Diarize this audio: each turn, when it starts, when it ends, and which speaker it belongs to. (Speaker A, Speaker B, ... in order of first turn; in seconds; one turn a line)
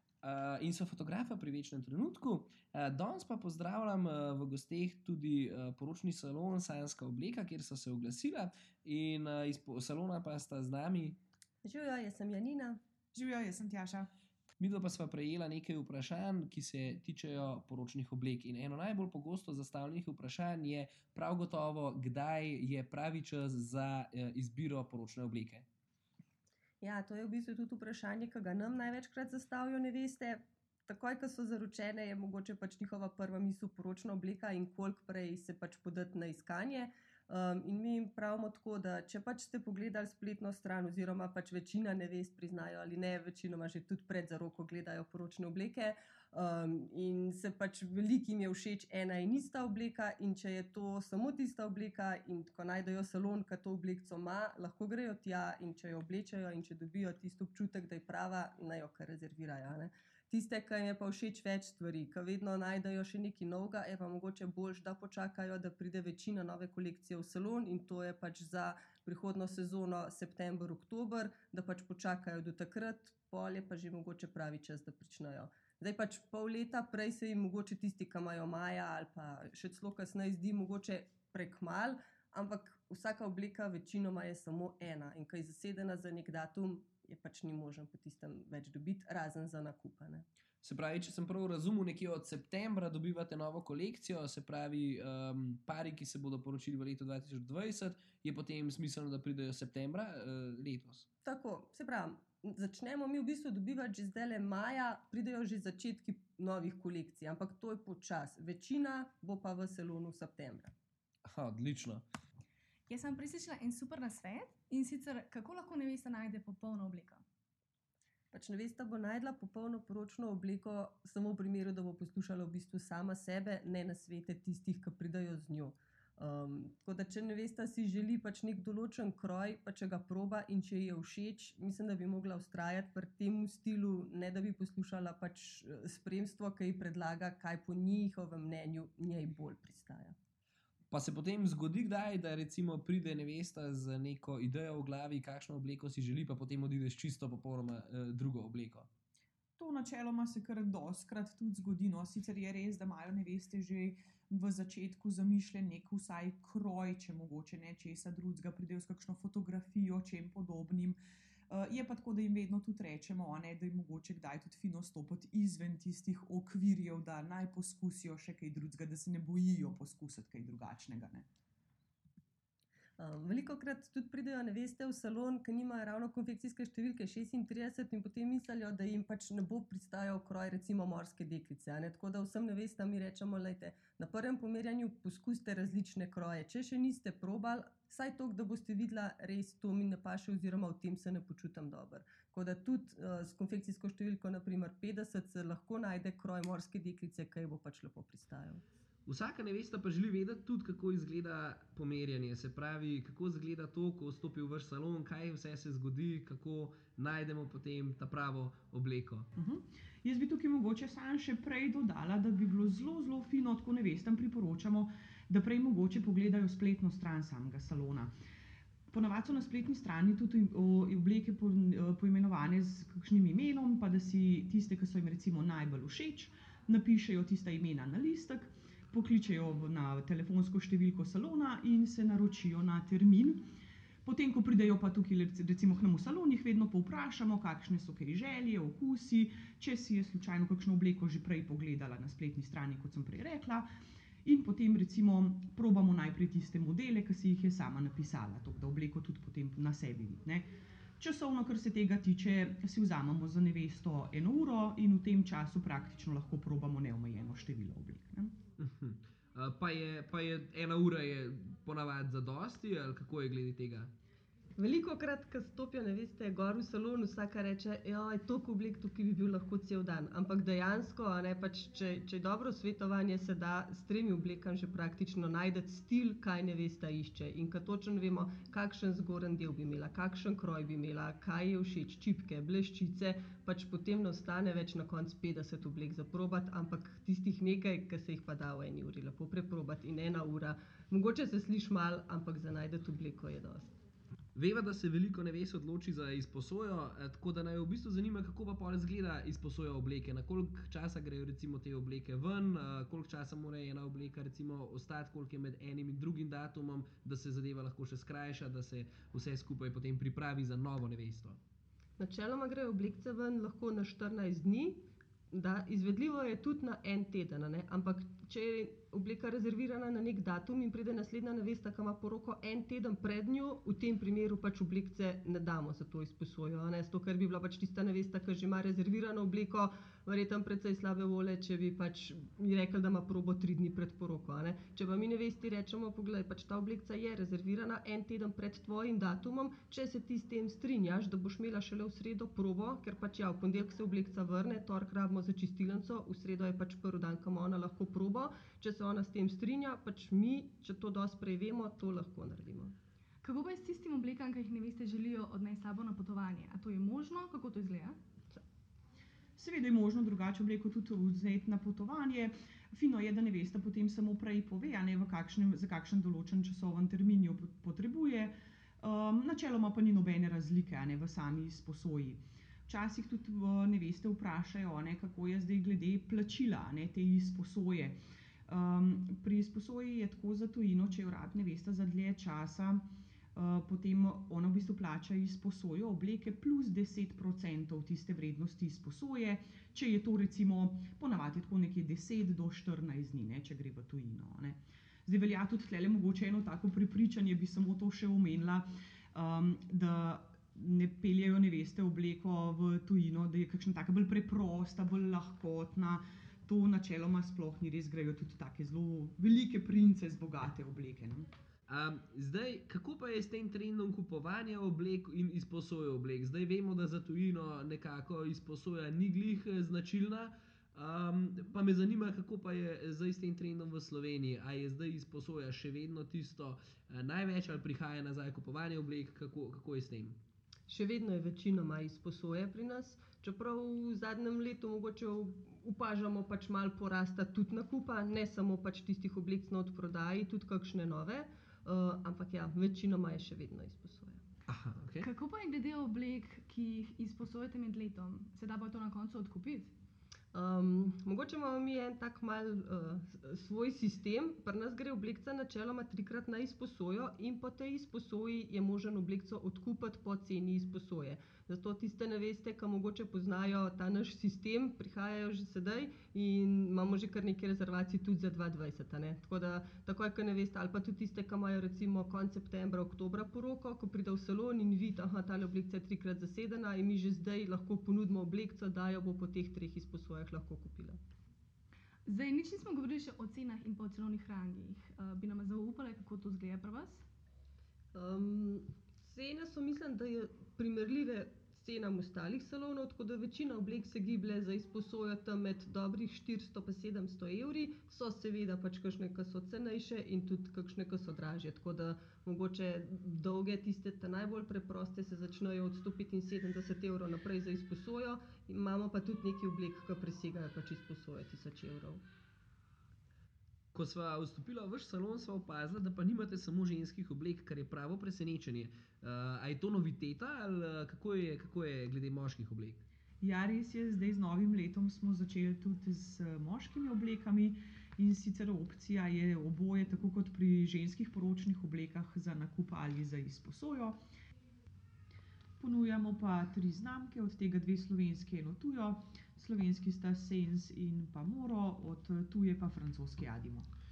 Speaker A: 0.2-11.2
Speaker B: 11.6-12.8
Speaker C: 13.1-14.1
Speaker A: 14.6-25.7
Speaker B: 26.8-90.2
Speaker A: 90.6-101.1
Speaker B: 101.2-110.7
Speaker A: 111.3-112.0
Speaker D: 112.9-117.2
Speaker B: 118.3-140.2
Speaker A: 140.9-148.9
Speaker C: 149.6-161.0
Speaker C: 161.5-171.3
Speaker B: 173.0-198.6
Speaker A: 199.1-209.3
Speaker C: 209.4-218.1
Speaker C: 218.9-233.4
Speaker C: 234.1-243.7
Speaker C: 244.2-258.4
Speaker A: 258.6-263.9
Speaker B: 264.6-293.7
Speaker A: 294.4-311.4
Speaker B: 312.0-352.7
Speaker D: 353.2-358.0
Speaker C: 359.4-411.3
Speaker A: 411.7-430.2
Speaker B: 430.7-444.2
Speaker A: 444.5-445.1
Speaker D: 445.0-449.7
Speaker B: 450.3-481.0
Speaker D: 482.1-487.1
Speaker B: 487.9-512.0
Speaker A: 513.7-522.9
Speaker C: 523.2-534.0
Speaker C: 535.6-543.7